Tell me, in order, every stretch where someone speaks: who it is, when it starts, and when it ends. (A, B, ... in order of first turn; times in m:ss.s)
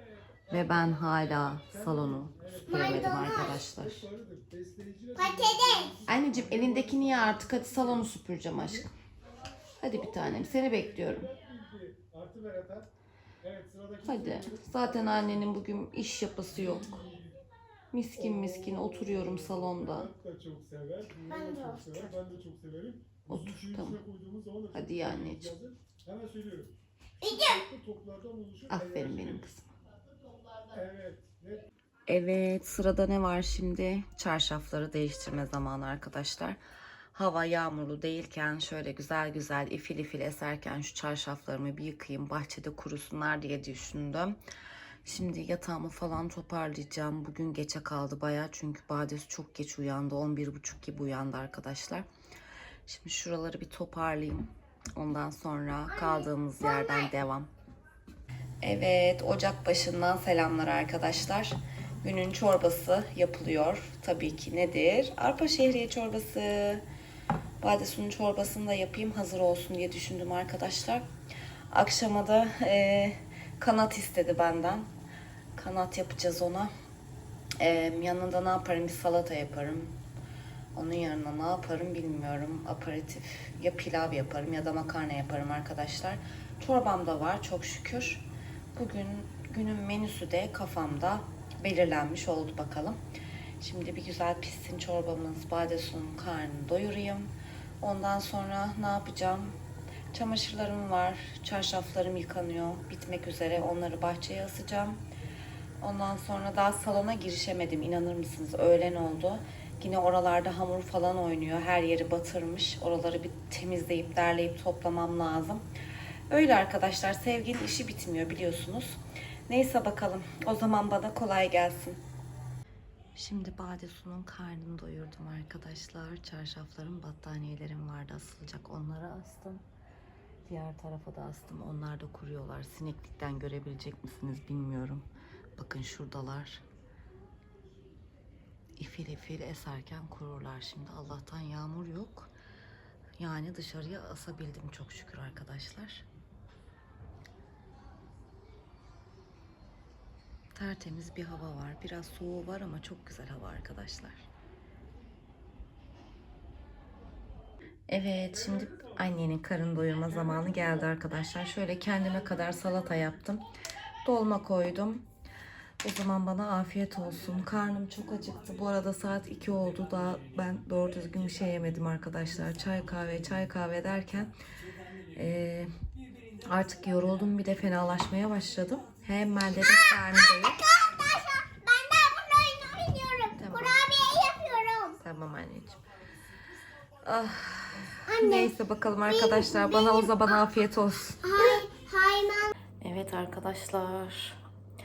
0:00.5-0:04.1 A
0:02.4-0:02.8 B
0:02.7-0:03.6 C
0:03.9-0:05.6 B
0:05.2-0:06.0 C
0:06.1-0:08.9 A
0:06.4-0:07.1 B
0:09.8-0:11.3 A
0:11.6-0:12.8 B
0:14.0-0:17.1 A
0:14.2-0:14.4 B
0:17.9-0:20.1 A
0:21.1-0:22.4 C
0:22.0-0:23.9 B
0:23.3-0:24.0 A
0:24.7-0:25.6 A
0:25.0-0:25.4 B
0:26.3-0:26.6 B
0:27.2-0:27.7 C
0:28.6-0:29.3 B
0:28.7-0:29.7 A
0:30.8-0:31.4 B
0:32.1-0:36.6 A
0:37.1-0:44.4 A
0:45.0-0:52.1 A
0:52.9-0:57.5 A
0:55.9-0:57.1 C
0:58.6-1:06.8 A
1:07.6-1:11.1 A
1:11.7-1:14.9 A
1:15.6-1:16.7 A
1:17.6-1:20.0 A
1:20.7-1:28.2 A
1:28.8-1:33.0 A
1:33.6-1:39.6 A
1:40.1-1:45.0 A
1:45.8-1:55.6 A
1:56.3-2:02.0 A
2:03.2-2:09.6 A
2:10.4-2:15.1 A
2:15.6-2:16.6 A
2:18.8-2:22.3 A
2:23.2-2:26.1 A
2:30.6-2:34.3 A
2:37.9-2:43.4 A
2:44.0-2:45.0 A
2:45.8-2:54.3 A
2:55.1-2:55.7 A
2:56.4-3:00.6 A
2:59.6-3:05.0 C
3:03.4-3:03.8 A
3:05.0-3:05.8 A
3:07.0-3:11.6 A
3:08.1-3:08.5 C
3:09.1-3:10.4 C
3:11.2-3:12.5 C
3:12.8-3:14.4 A